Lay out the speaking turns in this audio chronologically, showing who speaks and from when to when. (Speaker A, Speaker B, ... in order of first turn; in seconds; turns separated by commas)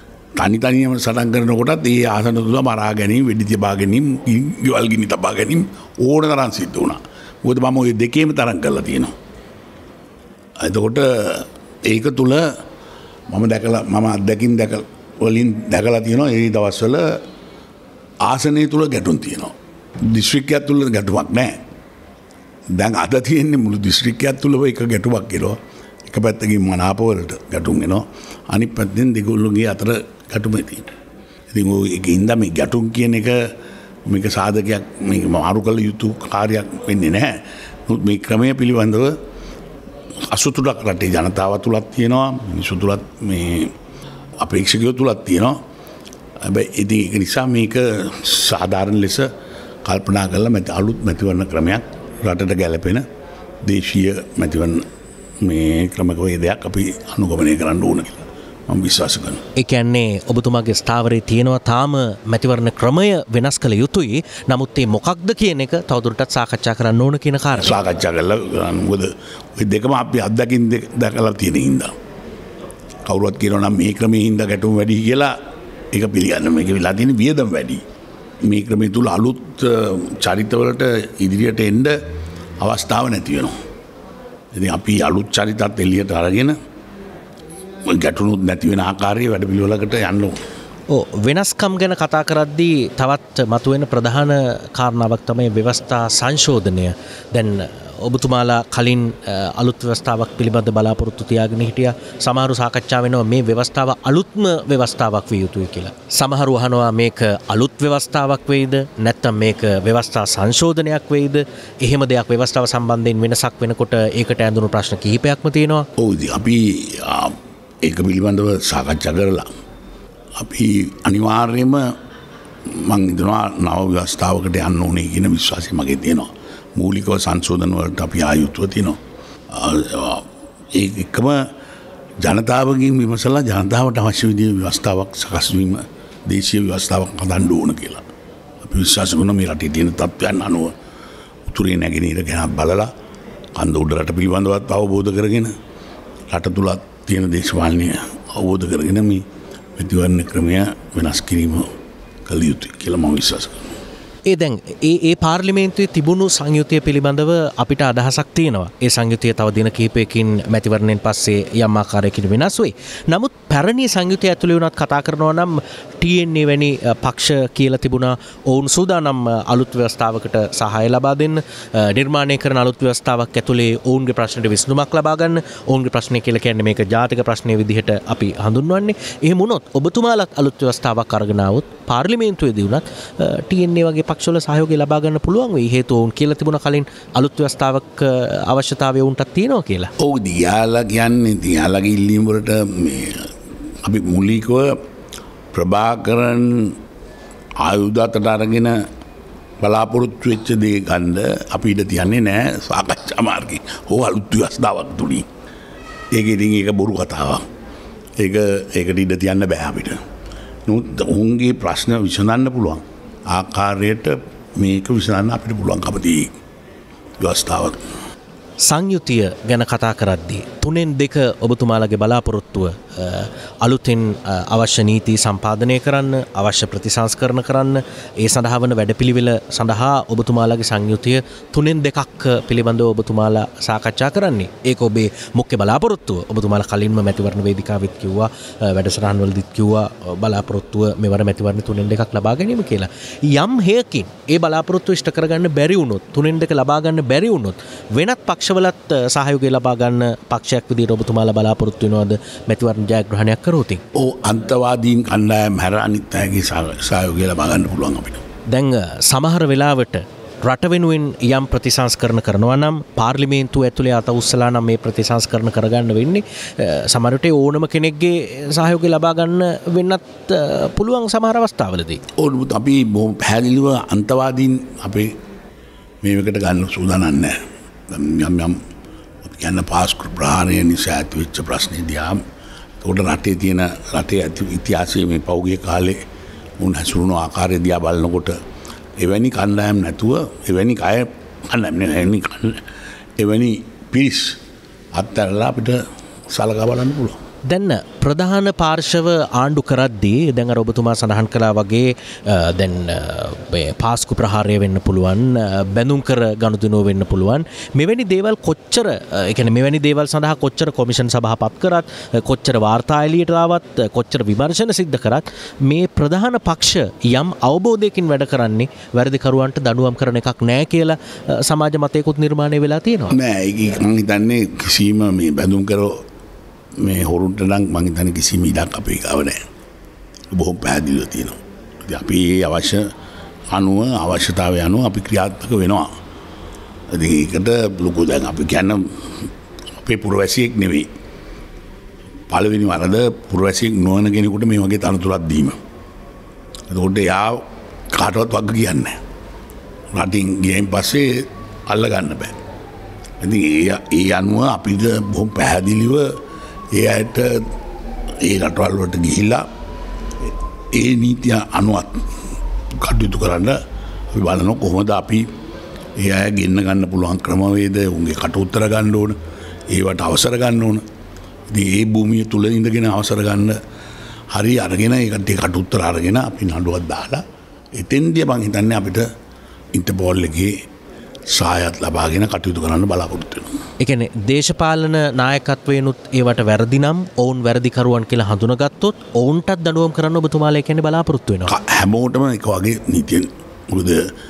Speaker A: 0.4-9.1, Speaker A: 10.6-12.5, Speaker A: 13.3-17.2, Speaker A: 18.2-21.5, Speaker A: 22.7-30.9, Speaker A: 31.5-33.5, Speaker A: 34.1-39.2, Speaker A: 40.3-43.7, Speaker A: 44.4-45.6, Speaker A: 46.4-49.3, Speaker A: 49.8-53.0, Speaker A: 53.6-54.8, Speaker A: 55.4-59.4, Speaker B: 59.5-67.8, Speaker A: 67.6-71.9, Speaker A: 73.0-75.3, Speaker A: 75.9-77.8, Speaker A: 78.4-82.0, Speaker A: 82.6-83.5, Speaker A: 84.5-86.6, Speaker A: 87.9-90.4, Speaker B: 90.9-115.9, Speaker A: 116.0-119.5, Speaker A: 120.4-121.9, Speaker A: 122.6-129.0, Speaker A: 129.5-131.5, Speaker A: 132.2-138.0, Speaker A: 138.6-140.7, Speaker A: 141.5-142.9, Speaker A: 143.6-145.5, Speaker A: 146.3-149.2, Speaker A: 149.8-151.7, Speaker A: 152.2-153.7, Speaker B: 154.2-189.9, Speaker A: 190.0-194.8, Speaker A: 195.5-196.8, Speaker A: 197.6-198.8, Speaker A: 199.6-205.3, Speaker A: 206.1-207.4, Speaker A: 208.2-210.0, Speaker A: 210.7-216.3, Speaker A: 217.2-217.8, Speaker B: 218.6-253.8, Speaker A: 253.9-258.2, Speaker B: 258.5-272.0, Speaker A: 272.1-275.1, Speaker A: 276.0-278.6, Speaker A: 279.2-282.2, Speaker A: 282.8-286.0, Speaker A: 286.6-288.4, Speaker A: 289.0-292.6, Speaker A: 293.2-294.4, Speaker A: 294.9-297.2, Speaker B: 297.4-323.2, Speaker A: 323.1-326.0, Speaker A: 326.8-329.4, Speaker A: 330.3-332.9, Speaker A: 333.5-335.9, Speaker A: 336.9-339.3, Speaker A: 339.8-340.9, Speaker A: 342.3-345.6, Speaker A: 346.7-349.0, Speaker A: 349.9-352.4, Speaker A: 353.2-356.2, Speaker A: 356.7-357.5, Speaker A: 358.2-359.4, Speaker A: 360.2-362.1, Speaker A: 362.7-363.6, Speaker A: 364.1-365.3, Speaker A: 366.0-369.2, Speaker A: 369.7-370.8, Speaker A: 371.5-373.6, Speaker A: 374.3-377.2, Speaker A: 377.7-379.1, Speaker A: 379.7-380.6, Speaker A: 381.3-383.5, Speaker B: 383.8-391.5, Speaker A: 391.5-394.1